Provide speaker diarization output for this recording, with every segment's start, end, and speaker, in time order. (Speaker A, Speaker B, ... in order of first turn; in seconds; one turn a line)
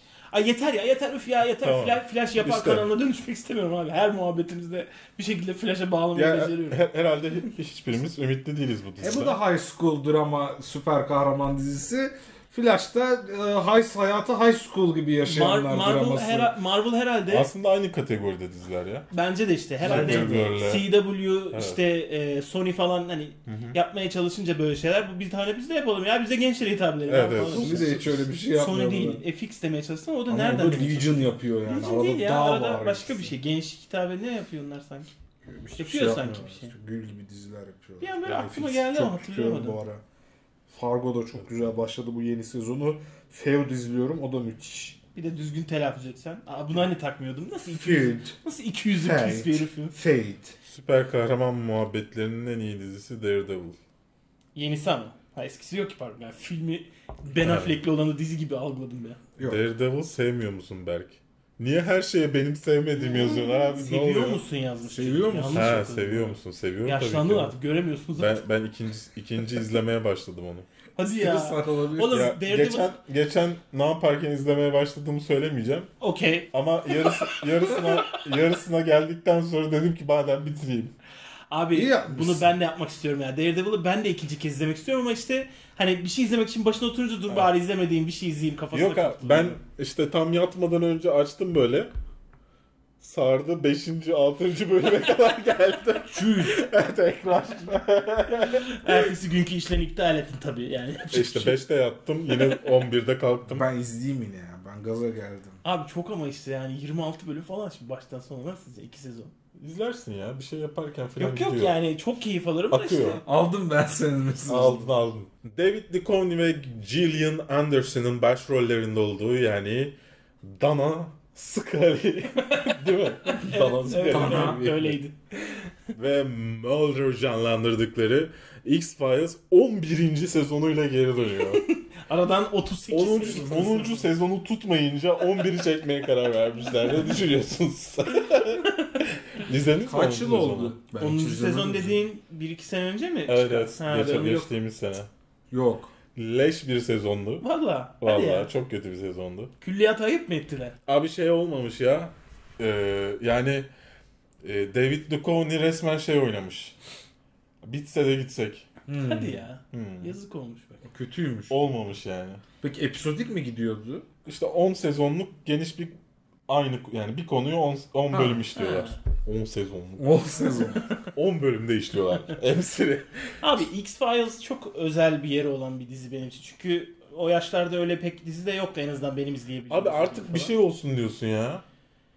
Speaker A: 0.3-6.8
Speaker B: 1.6-2.9
Speaker B: 6.1-9.4
Speaker C: 9.0-16.5
Speaker A: 15.2-17.5
Speaker B: 17.3-19.1
Speaker A: 19.1-27.9
Speaker B: 19.8-21.0
Speaker C: 19.8-20.5
Speaker B: 21.5-21.8
Speaker B: 23.4-23.8
Speaker B: 27.1-28.3
Speaker C: 27.5-29.2
Speaker A: 28.5-35.1
Speaker C: 30.3-33.3
Speaker C: 35.4-40.0
Speaker A: 35.8-36.7
Speaker A: 38.0-39.8
Speaker C: 40.7-45.0
Speaker A: 45.1-50.0
Speaker C: 47.7-48.3
Speaker C: 49.0-50.5
Speaker B: 50.7-53.8
Speaker A: 54.5-59.2
Speaker B: 57.4-57.8
Speaker B: 59.4-64.4
Speaker A: 63.1-68.4
Speaker C: 64.8-65.8
Speaker B: 65.5-67.5
Speaker B: 68.2-70.7
Speaker A: 71.0-72.9
Speaker C: 71.0-72.2
Speaker B: 72.1-75.9
Speaker A: 76.0-76.5
Speaker B: 76.5-80.9
Speaker A: 81.5-89.6
Speaker C: 81.7-82.5
Speaker B: 88.7-91.9
Speaker B: 93.0-99.0
Speaker C: 96.1-96.7
Speaker A: 98.4-101.6
Speaker B: 101.1-103.7
Speaker C: 103.4-105.6
Speaker A: 105.6-109.3
Speaker B: 109.5-111.8
Speaker A: 111.2-113.2
Speaker B: 112.7-113.2
Speaker C: 113.2-114.9
Speaker B: 114.5-125.0
Speaker A: 122.5-122.7
Speaker A: 123.2-125.7
Speaker C: 124.0-124.7
Speaker B: 125.9-131.6
Speaker A: 131.5-134.0
Speaker B: 132.9-140.8
Speaker C: 133.3-133.9
Speaker C: 139.8-142.0
Speaker A: 141.0-144.5
Speaker B: 143.3-145.1
Speaker C: 145.5-145.9
Speaker B: 146.1-147.4
Speaker A: 147.4-148.5
Speaker B: 148.0-149.5
Speaker A: 149.6-150.8
Speaker B: 150.8-153.7
Speaker B: 154.4-156.7
Speaker B: 157.6-158.7
Speaker C: 158.9-159.4
Speaker A: 159.0-160.8
Speaker B: 159.7-160.1
Speaker C: 160.8-161.6
Speaker B: 161.5-162.4
Speaker C: 162.6-164.1
Speaker B: 164.2-165.9
Speaker B: 166.5-170.3
Speaker A: 168.1-169.0
Speaker C: 170.0-170.8
Speaker B: 171.1-173.1
Speaker A: 173.4-180.5
Speaker B: 179.7-181.6